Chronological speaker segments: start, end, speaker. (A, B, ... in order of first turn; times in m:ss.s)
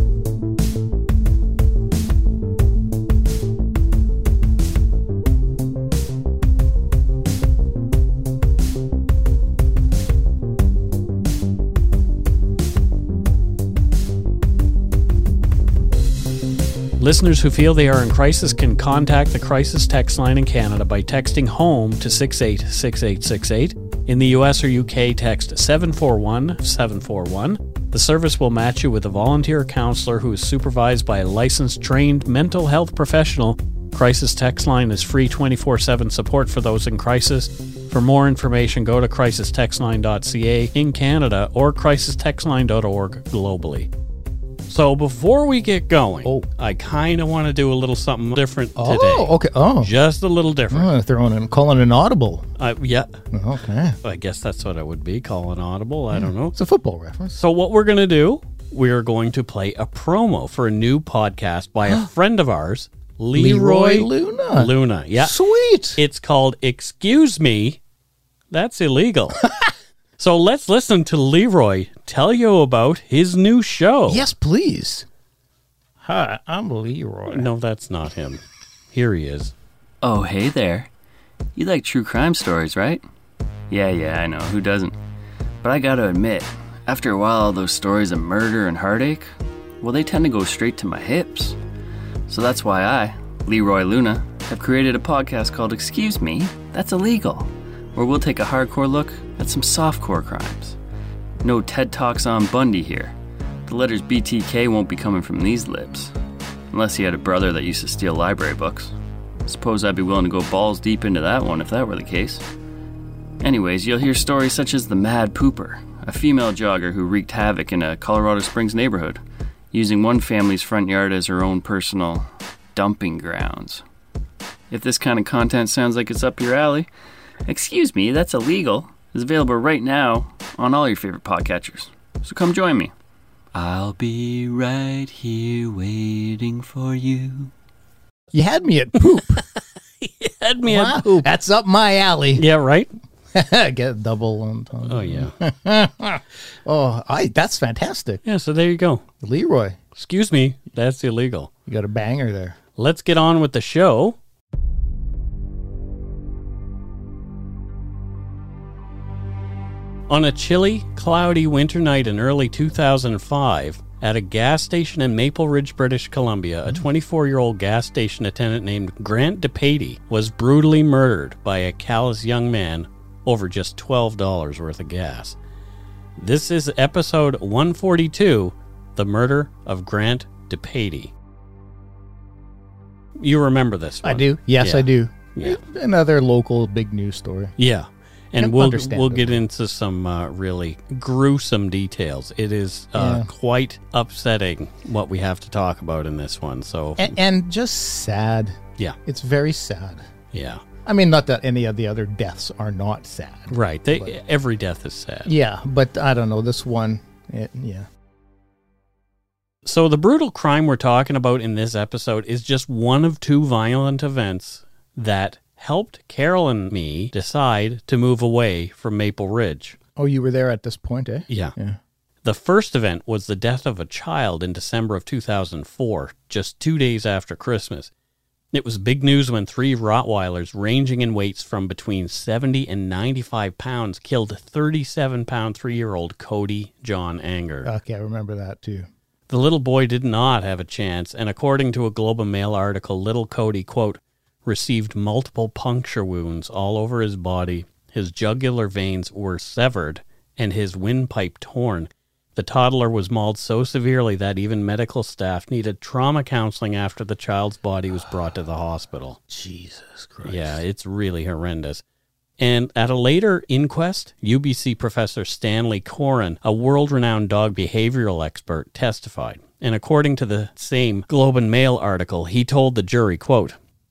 0:17.0-0:43.9 A
0:44.7-0:50.9 A
0:48.8-0:49.9 B
0:50.7-0:52.5 B
0:52.6-0:53.2 A
0:53.3-0:54.0 B
0:54.0-0:56.6 A
0:56.1-0:57.4 B
0:57.4-1:05.4 A
1:03.3-1:06.0 B
1:06.0-1:07.8 A
1:08.5-1:09.4 A
1:09.4-1:09.7 B
1:10.2-1:14.2 A
1:14.1-1:15.1 B
1:16.0-1:17.5 B
1:17.3-1:19.5 A
1:20.0-1:20.9 C
1:21.6-1:23.0 C
1:23.7-1:25.0 C
1:25.6-1:31.6 C
1:32.3-1:40.8 C
1:41.4-1:43.1 C
1:43.7-1:46.1 C
1:46.7-1:52.4 C
1:53.4-1:59.2 C
1:59.7-2:03.8 C
2:04.7-2:06.9 C
2:07.5-2:12.9 C
2:13.5-2:17.5 C
2:18.3-2:19.4 B
2:20.0-2:21.3 A
2:20.6-2:22.4 B
2:22.4-2:22.9 A
2:23.3-2:28.2 B
2:24.9-2:25.3 A
2:28.2-2:29.0 A
2:29.2-2:29.8 B
2:30.0-2:31.5 A
2:31.7-2:32.6 B
2:32.8-2:34.2 A
2:40.1-2:55.4 A
2:56.2-3:01.1 A
3:03.2-3:05.6 A
3:04.0-3:07.6 B
3:07.6-3:17.1 A
3:08.4-3:09.4 B
3:13.0-3:13.3 B
3:17.0-3:20.1 B
3:20.3-3:20.6 A
3:20.8-3:24.1 B
3:23.5-3:25.3 A
3:25.2-3:27.9 B
3:29.6-3:39.8 A
3:40.0-3:41.8 B
3:41.3-3:41.5 A
3:42.2-3:47.9 A
3:48.5-3:57.7 A
3:57.6-3:58.9 B
3:59.3-4:19.2 A
4:19.3-4:20.6 B
4:20.2-4:21.8 A
4:22.4-4:33.6 A